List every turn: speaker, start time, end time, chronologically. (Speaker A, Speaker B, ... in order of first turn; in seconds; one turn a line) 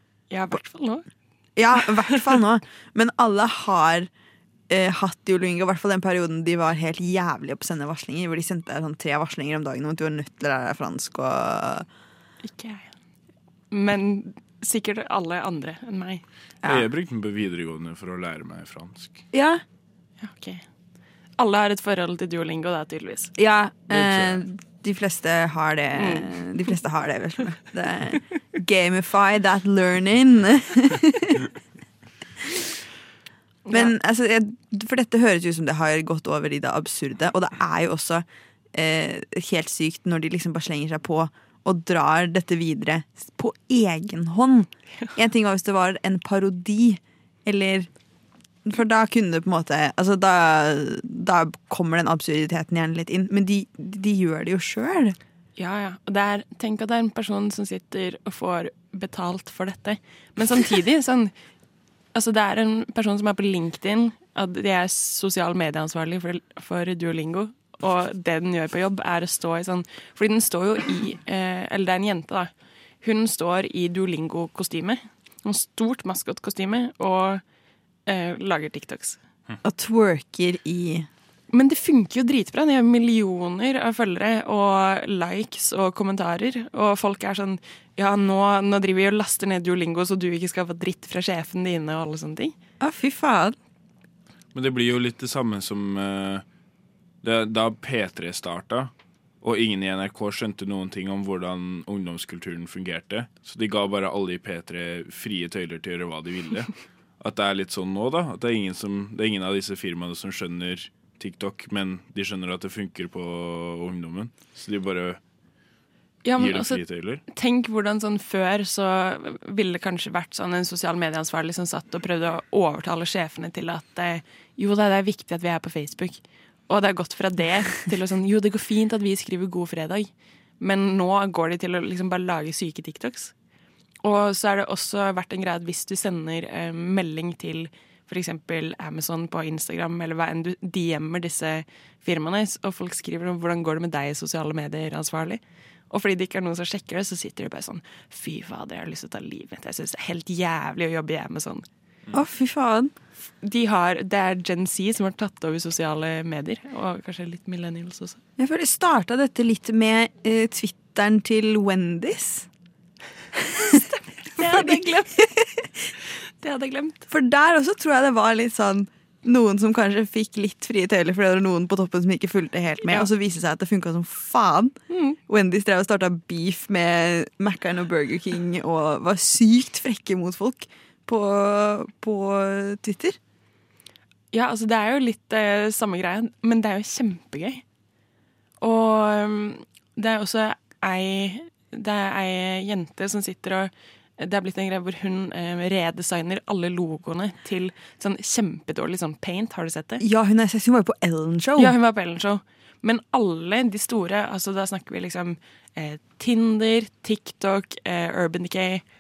Speaker A: 0.3-1.0
Speaker B: 1.6-4.1
Speaker B: 4.7-11.9
Speaker A: 12.4-12.9
Speaker A: 13.7-16.2
Speaker B: 16.6-16.9
Speaker C: 16.6-19.2
Speaker B: 19.3-19.6
Speaker A: 20.2-20.6
Speaker A: 21.4-23.3
Speaker B: 23.4-31.5
Speaker C: 23.9-24.4
Speaker A: 25.9-26.4
Speaker A: 33.7-33.9
Speaker B: 33.7-47.9
Speaker B: 48.6-55.2
Speaker A: 55.6-61.3
Speaker A: 62.1-72.5
Speaker A: 73.0-77.4
Speaker A: 78.0-79.2
Speaker B: 79.6-81.1
Speaker A: 81.5-92.5
Speaker B: 92.8-93.5
Speaker C: 94.5-96.4
Speaker C: 97.2-98.9
Speaker C: 99.4-115.2
Speaker A: 116.2-133.3
Speaker C: 116.4-117.2
Speaker A: 134.0-151.7
Speaker B: 152.1-152.9
Speaker A: 153.4-158.2
Speaker B: 158.4-162.5
Speaker B: 163.4-165.8
Speaker A: 164.2-165.1
Speaker A: 166.4-167.1
Speaker B: 167.1-183.2
Speaker A: 174.9-175.2
Speaker A: 184.3-187.6
Speaker A: 188.6-200.0
Speaker B: 200.0-201.8
Speaker A: 201.6-208.8